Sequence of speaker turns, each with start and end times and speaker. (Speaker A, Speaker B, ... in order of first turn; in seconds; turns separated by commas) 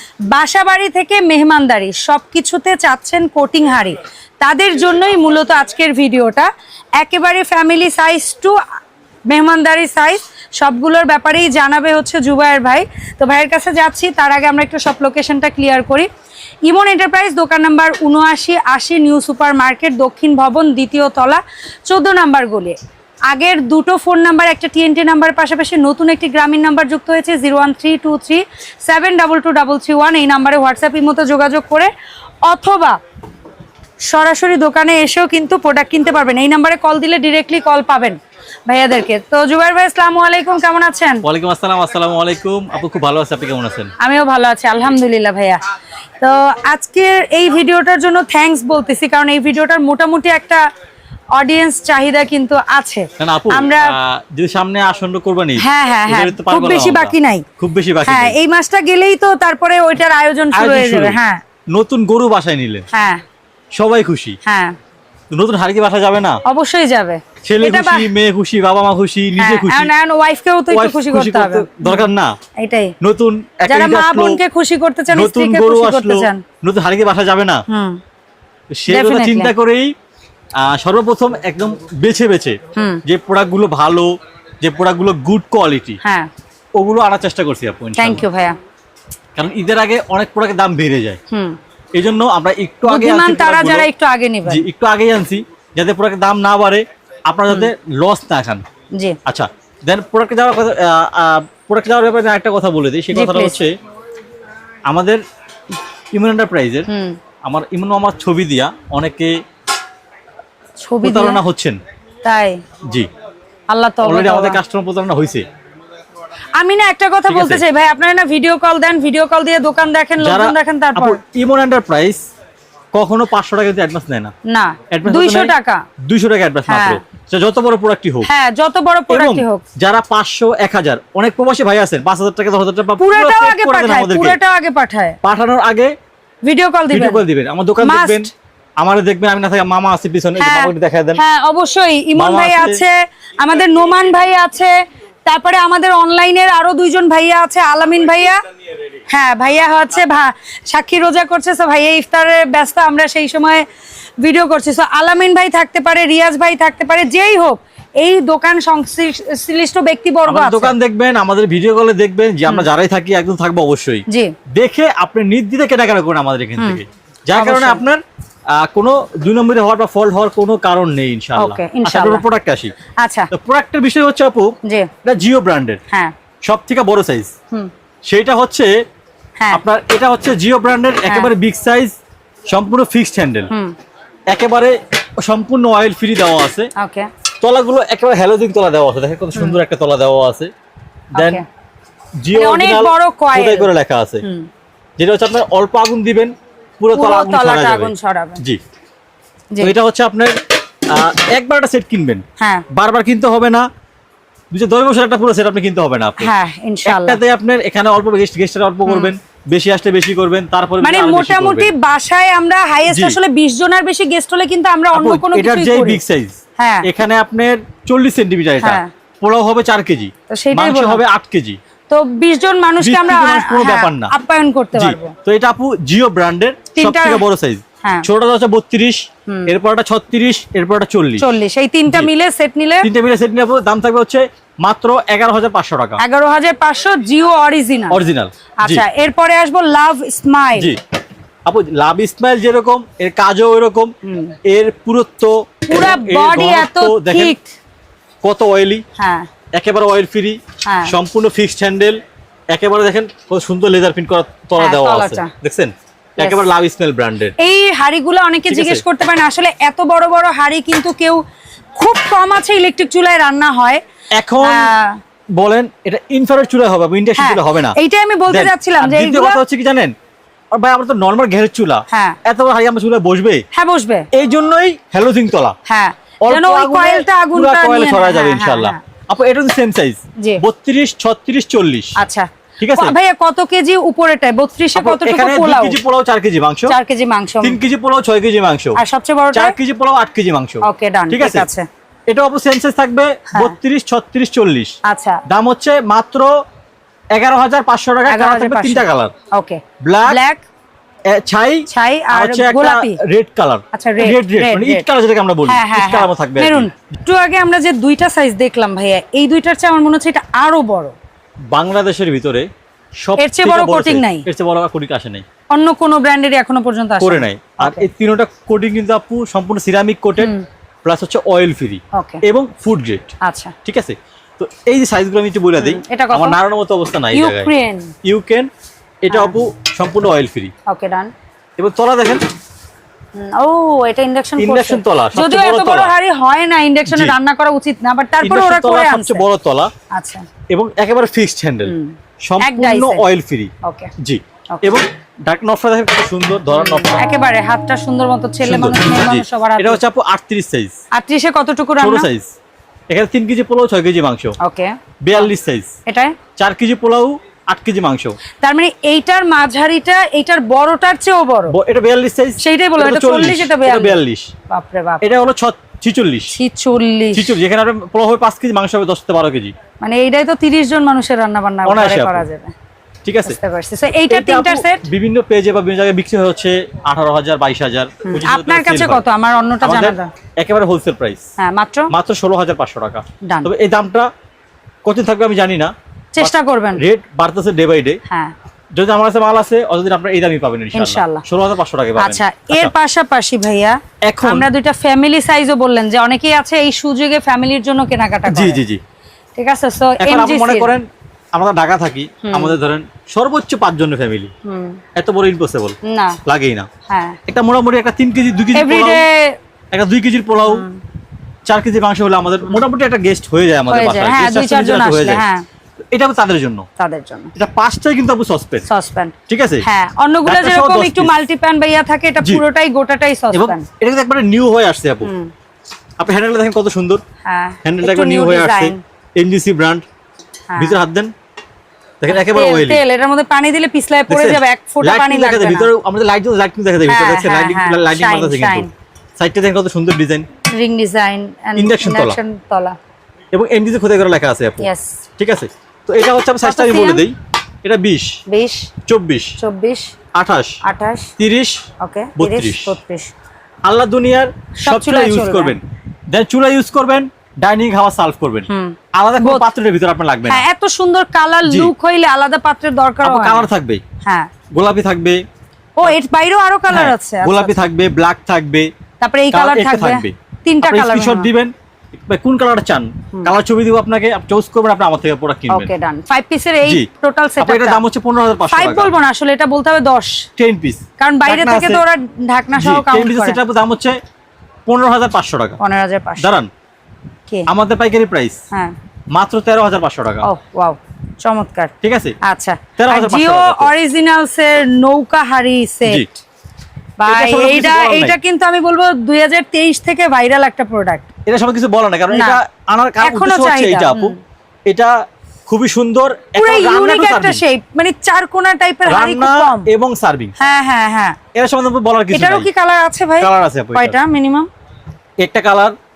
Speaker A: 0.3-8.6, Speaker A: 9.3-16.1, Speaker A: 16.6-22.8, Speaker A: 23.3-31.9, Speaker A: 32.5-33.0, Speaker A: 34.0-41.2, Speaker B: 41.2-43.9, Speaker A: 44.0-45.6, Speaker A: 46.2-50.6, Speaker A: 51.4-54.0, Speaker B: 53.2-58.4, Speaker A: 55.6-57.5, Speaker A: 58.0-61.4, Speaker B: 60.5-61.2, Speaker B: 61.7-62.9, Speaker A: 62.9-63.2, Speaker B: 63.8-64.4, Speaker A: 64.5-64.8, Speaker B: 65.3-66.4, Speaker A: 66.5-68.1, Speaker B: 67.4-69.9, Speaker A: 69.4-72.1, Speaker B: 70.7-72.3, Speaker A: 72.6-72.9, Speaker B: 73.0-74.4, Speaker A: 73.7-76.4, Speaker B: 75.1-77.6, Speaker A: 77.7-78.0, Speaker B: 78.7-79.9, Speaker A: 78.9-79.5, Speaker B: 80.6-86.0, Speaker A: 82.7-83.0, Speaker A: 86.0-86.3, Speaker B: 86.8-88.2, Speaker A: 88.0-88.6, Speaker B: 89.4-91.2, Speaker A: 91.3-91.6, Speaker B: 91.9-93.9, Speaker A: 92.9-94.7, Speaker B: 94.5-98.6, Speaker B: 99.3-103.8, Speaker A: 103.1-103.6, Speaker B: 104.9-105.2, Speaker B: 106.1-106.9, Speaker A: 106.9-107.2, Speaker B: 107.5-109.4, Speaker A: 110.8-111.4, Speaker B: 111.0-111.8, Speaker A: 112.2-112.6, Speaker B: 112.8-113.1, Speaker A: 113.7-114.6, Speaker B: 114.0-115.5, Speaker A: 116.5-121.2, Speaker B: 117.3-117.6, Speaker B: 120.2-122.2, Speaker B: 122.9-124.3, Speaker A: 124.5-125.8, Speaker B: 124.9-128.3, Speaker A: 126.7-127.0, Speaker A: 128.2-129.6, Speaker B: 129.1-134.4, Speaker A: 133.0-135.2, Speaker B: 135.2-135.9, Speaker A: 136.4-137.3, Speaker B: 136.9-141.2, Speaker A: 137.8-138.3, Speaker A: 140.4-144.8, Speaker B: 142.2-142.8, Speaker A: 145.3-148.4, Speaker A: 149.1-153.6, Speaker A: 154.2-160.8, Speaker B: 160.3-168.0, Speaker A: 164.1-164.3, Speaker A: 167.3-167.8, Speaker B: 168.5-172.7, Speaker A: 171.4-172.2, Speaker A: 173.0-173.3, Speaker B: 173.3-175.8, Speaker B: 176.5-177.3, Speaker B: 178.1-178.7, Speaker B: 179.5-182.0, Speaker A: 181.1-181.3, Speaker B: 182.5-183.5, Speaker B: 184.3-186.7, Speaker A: 186.8-187.1, Speaker B: 187.4-190.5, Speaker B: 191.2-191.4, Speaker A: 191.2-191.4, Speaker B: 192.2-194.2, Speaker A: 192.3-193.7, Speaker A: 194.2-194.5, Speaker B: 195.0-198.6, Speaker A: 196.9-198.4, Speaker B: 199.6-203.7, Speaker B: 204.5-206.3, Speaker A: 206.2-207.2, Speaker B: 206.9-211.8, Speaker A: 208.8-209.1, Speaker A: 210.8-216.0, Speaker B: 212.9-213.2, Speaker B: 214.9-221.6, Speaker A: 216.6-216.9, Speaker A: 218.6-218.9, Speaker A: 220.3-221.0, Speaker A: 221.9-225.1, Speaker B: 222.8-224.1, Speaker B: 224.7-231.3, Speaker A: 226.8-227.2, Speaker A: 227.8-228.1, Speaker A: 229.3-229.5, Speaker A: 231.2-232.9, Speaker B: 232.8-236.0, Speaker A: 236.0-238.0, Speaker B: 237.9-238.9, Speaker A: 238.6-240.7, Speaker B: 241.4-243.9, Speaker A: 244.0-244.4, Speaker B: 244.4-247.4, Speaker A: 245.7-247.5, Speaker B: 248.2-248.8, Speaker A: 249.0-249.3, Speaker B: 249.5-252.0, Speaker A: 250.6-250.9, Speaker B: 252.5-257.4, Speaker A: 254.6-255.3, Speaker A: 256.2-256.5, Speaker A: 257.4-261.2, Speaker B: 258.5-258.8, Speaker A: 261.8-263.8, Speaker B: 264.1-264.7, Speaker A: 264.4-265.0, Speaker B: 265.4-267.8, Speaker A: 267.2-269.4, Speaker B: 268.3-269.9, Speaker B: 270.5-273.4, Speaker A: 271.9-272.2, Speaker A: 273.5-274.1, Speaker B: 274.1-275.6, Speaker A: 275.7-278.8, Speaker B: 276.2-281.9, Speaker A: 282.0-285.8, Speaker B: 282.6-282.9, Speaker B: 284.8-286.8, Speaker A: 286.7-287.6, Speaker B: 287.4-288.8, Speaker A: 288.8-289.6, Speaker B: 289.3-291.5, Speaker A: 290.6-291.7, Speaker B: 292.1-294.8, Speaker A: 293.3-293.6, Speaker A: 294.9-295.2, Speaker B: 295.3-296.4, Speaker B: 297.1-299.1, Speaker A: 298.1-300.4, Speaker B: 299.8-300.2, Speaker B: 301.1-306.7, Speaker A: 301.7-303.0, Speaker A: 303.7-304.9, Speaker A: 305.5-310.9, Speaker B: 311.5-312.5, Speaker B: 313.0-315.2, Speaker A: 313.2-314.3, Speaker A: 315.5-317.9, Speaker B: 317.0-320.3, Speaker A: 320.2-320.4, Speaker B: 320.9-323.1, Speaker A: 321.9-322.2, Speaker A: 323.2-323.5, Speaker B: 323.6-327.5, Speaker A: 325.6-326.4, Speaker A: 327.1-327.9, Speaker B: 328.0-328.5, Speaker B: 329.0-330.5, Speaker A: 329.1-329.4, Speaker A: 330.7-331.1, Speaker B: 331.6-332.3, Speaker A: 333.1-339.3, Speaker B: 334.4-335.9, Speaker B: 336.9-337.2, Speaker B: 338.2-339.7, Speaker A: 339.9-340.3, Speaker B: 340.5-347.0, Speaker A: 341.6-343.1, Speaker A: 343.6-343.9, Speaker A: 346.5-349.8, Speaker B: 348.4-350.8, Speaker A: 350.9-352.1, Speaker B: 351.8-352.3, Speaker B: 352.9-354.4, Speaker A: 354.4-355.3, Speaker B: 355.0-355.7, Speaker A: 355.9-356.2, Speaker B: 356.4-358.2, Speaker A: 358.4-361.6, Speaker B: 361.5-364.3, Speaker A: 362.4-365.0, Speaker B: 365.0-366.4, Speaker A: 366.3-367.4, Speaker B: 367.1-369.5, Speaker A: 369.8-372.5, Speaker B: 371.6-372.2, Speaker B: 373.1-373.4, Speaker A: 373.2-374.8, Speaker B: 374.1-379.1, Speaker A: 378.1-380.1, Speaker B: 379.6-381.2, Speaker A: 381.4-381.9, Speaker B: 381.9-384.1, Speaker A: 383.2-383.5, Speaker B: 384.9-388.0, Speaker A: 386.1-386.8, Speaker A: 388.1-388.3, Speaker B: 388.7-392.7, Speaker A: 390.7-391.2, Speaker A: 392.0-398.6, Speaker B: 394.1-394.5, Speaker B: 398.3-398.8, Speaker A: 399.4-400.8, Speaker B: 400.0-404.3, Speaker A: 402.2-402.6, Speaker A: 404.4-404.8, Speaker B: 405.0-406.7, Speaker A: 405.9-406.2, Speaker A: 406.9-407.2, Speaker B: 407.3-409.1, Speaker A: 408.5-409.4, Speaker B: 409.7-410.7, Speaker A: 410.4-410.8, Speaker B: 411.5-415.2, Speaker A: 413.7-415.4, Speaker B: 415.8-416.7, Speaker A: 416.8-417.3, Speaker B: 417.4-418.7, Speaker A: 418.7-423.7, Speaker B: 419.3-419.6, Speaker B: 420.2-421.2, Speaker B: 423.3-425.1, Speaker A: 425.0-425.3, Speaker B: 426.0-427.0, Speaker A: 427.2-428.8, Speaker B: 427.6-429.8, Speaker A: 430.5-430.8, Speaker B: 430.6-431.1, Speaker B: 432.0-432.8, Speaker A: 432.1-435.7, Speaker B: 434.1-440.3, Speaker A: 436.9-438.7, Speaker A: 440.5-442.8, Speaker B: 441.6-442.2, Speaker B: 443.3-448.2, Speaker A: 444.6-445.0, Speaker A: 446.4-447.1, Speaker A: 448.3-448.7, Speaker B: 448.9-449.4, Speaker A: 449.4-449.9, Speaker B: 450.1-450.6, Speaker A: 450.6-451.1, Speaker B: 451.2-451.6, Speaker A: 451.8-453.1, Speaker B: 452.2-452.8, Speaker B: 453.6-460.4, Speaker A: 454.6-455.6, Speaker A: 458.5-459.5, Speaker A: 460.3-463.5, Speaker B: 461.4-461.7, Speaker B: 463.0-463.8, Speaker A: 464.0-464.3, Speaker B: 464.5-465.2, Speaker A: 465.8-467.6, Speaker B: 466.7-468.7, Speaker A: 469.0-471.3, Speaker B: 469.3-475.7, Speaker A: 475.5-477.8, Speaker B: 477.4-478.9, Speaker A: 478.5-480.3, Speaker B: 480.4-481.8, Speaker A: 481.0-483.4, Speaker B: 482.6-484.0, Speaker B: 484.7-485.6, Speaker A: 485.6-486.4, Speaker B: 486.2-486.5, Speaker B: 487.5-488.4, Speaker B: 489.1-490.3, Speaker A: 490.2-496.1, Speaker B: 491.8-492.2, Speaker B: 492.8-493.7, Speaker A: 497.0-501.1, Speaker B: 497.1-498.2, Speaker B: 501.3-504.1, Speaker A: 502.1-502.4, Speaker A: 503.0-504.2, Speaker B: 504.7-507.4, Speaker A: 506.4-509.7, Speaker B: 508.9-510.3, Speaker A: 510.4-511.2, Speaker B: 511.4-512.5, Speaker A: 512.1-514.5, Speaker B: 513.2-514.0, Speaker B: 515.2-515.8